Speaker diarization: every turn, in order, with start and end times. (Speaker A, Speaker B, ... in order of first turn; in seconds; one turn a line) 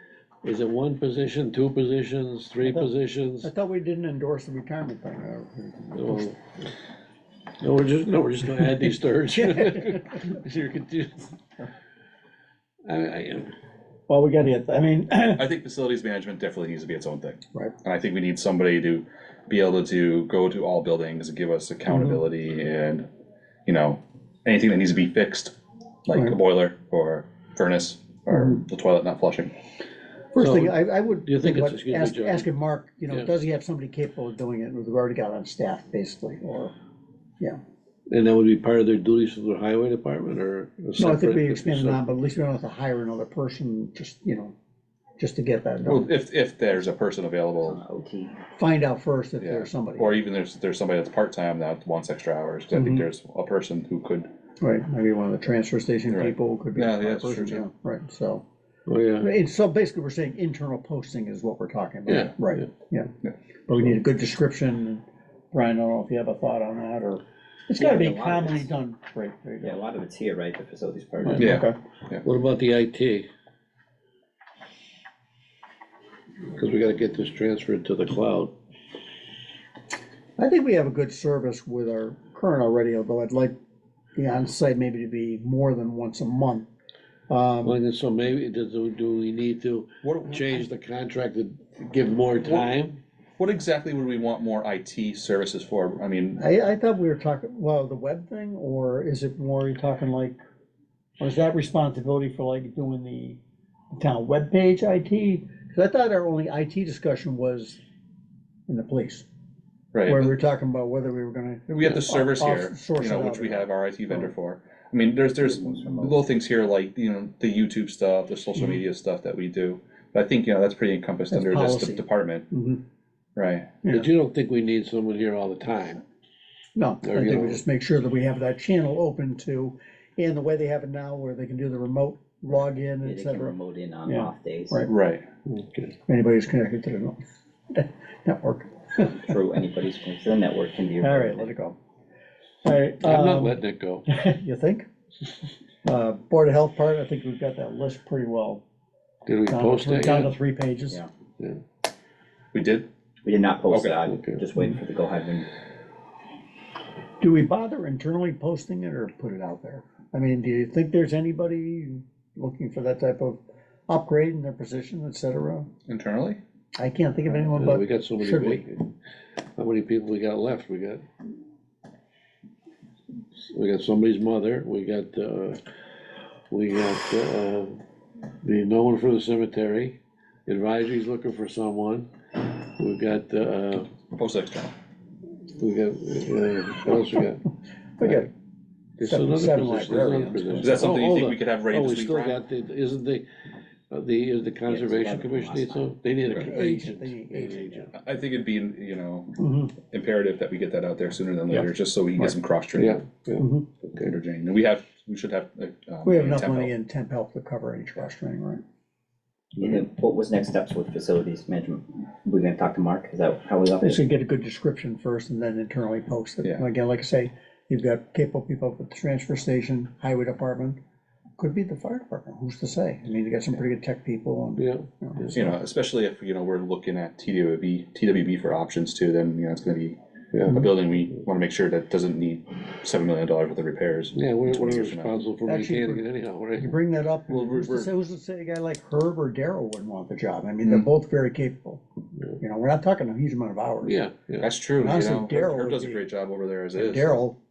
Speaker A: 0.4-3.5
Speaker B: 2.6-6.3
Speaker A: 5.9-6.7
Speaker A: 7.6-11.3
Speaker B: 9.3-10.0
Speaker A: 12.8-13.5
Speaker B: 14.1-15.5
Speaker C: 15.3-23.1
Speaker C: 23.6-25.5
Speaker C: 26.1-29.5
Speaker B: 30.3-36.7
Speaker A: 30.4-32.5
Speaker A: 38.1-42.0
Speaker B: 41.0-44.5
Speaker B: 45.2-46.0
Speaker C: 45.9-47.8
Speaker D: 47.6-48.4
Speaker B: 48.6-50.2
Speaker C: 49.4-54.3
Speaker B: 52.7-53.1
Speaker B: 54.6-58.4
Speaker C: 56.1-57.6
Speaker A: 58.9-59.3
Speaker B: 59.2-63.1
Speaker A: 62.1-62.6
Speaker B: 63.7-69.8
Speaker D: 67.8-68.7
Speaker D: 69.6-71.5
Speaker B: 71.2-71.8
Speaker C: 71.4-72.2
Speaker A: 72.2-73.3
Speaker A: 76.5-78.5
Speaker B: 80.4-83.5
Speaker B: 84.2-86.7
Speaker B: 87.3-87.8
Speaker A: 87.6-93.0
Speaker C: 90.0-90.6
Speaker C: 93.4-96.4
Speaker B: 96.4-100.4
Speaker B: 101.2-103.4
Speaker B: 103.9-107.8
Speaker B: 108.7-109.2
Speaker C: 109.9-110.3
Speaker B: 110.0-114.3
Speaker C: 111.7-122.5
Speaker D: 115.4-116.2
Speaker B: 121.3-122.8
Speaker C: 123.3-123.7
Speaker A: 123.9-126.0
Speaker B: 126.7-133.5
Speaker A: 127.0-127.6
Speaker D: 133.0-134.9
Speaker B: 134.1-134.9
Speaker C: 134.8-135.2
Speaker A: 135.4-136.0
Speaker B: 136.1-137.2
Speaker B: 137.7-139.3
Speaker D: 139.0-141.5
Speaker B: 141.0-141.8
Speaker B: 142.6-144.9
Speaker A: 143.0-144.1
Speaker B: 145.8-148.6
Speaker A: 149.2-150.3
Speaker B: 149.5-151.0
Speaker C: 152.5-152.9
Speaker D: 153.2-155.5
Speaker C: 153.7-154.0
Speaker A: 154.1-154.4
Speaker B: 157.2-165.7
Speaker C: 165.9-166.4
Speaker B: 166.8-168.7
Speaker A: 167.6-168.9
Speaker A: 169.6-171.1
Speaker A: 173.5-175.6
Speaker A: 176.5-177.8
Speaker A: 178.4-183.9
Speaker C: 184.1-184.7
Speaker A: 185.6-187.4
Speaker B: 188.0-188.3
Speaker A: 189.0-193.2
Speaker B: 189.0-190.9
Speaker C: 190.6-192.4
Speaker A: 193.9-197.9
Speaker D: 194.7-195.9
Speaker B: 196.3-197.9
Speaker C: 197.9-203.1
Speaker B: 199.4-199.7
Speaker B: 201.5-202.3
Speaker A: 202.8-203.4
Speaker B: 203.4-203.7
Speaker C: 204.0-206.7
Speaker B: 206.0-208.6
Speaker D: 209.6-214.0
Speaker B: 213.8-220.8
Speaker B: 221.4-225.4
Speaker A: 224.6-225.3
Speaker C: 225.3-235.2
Speaker A: 230.3-230.6
Speaker A: 234.1-236.8
Speaker B: 235.4-236.0
Speaker B: 236.6-241.8
Speaker C: 237.3-237.9
Speaker B: 242.4-244.0
Speaker A: 243.8-244.5
Speaker C: 244.4-247.2
Speaker B: 244.8-246.0
Speaker B: 246.7-247.4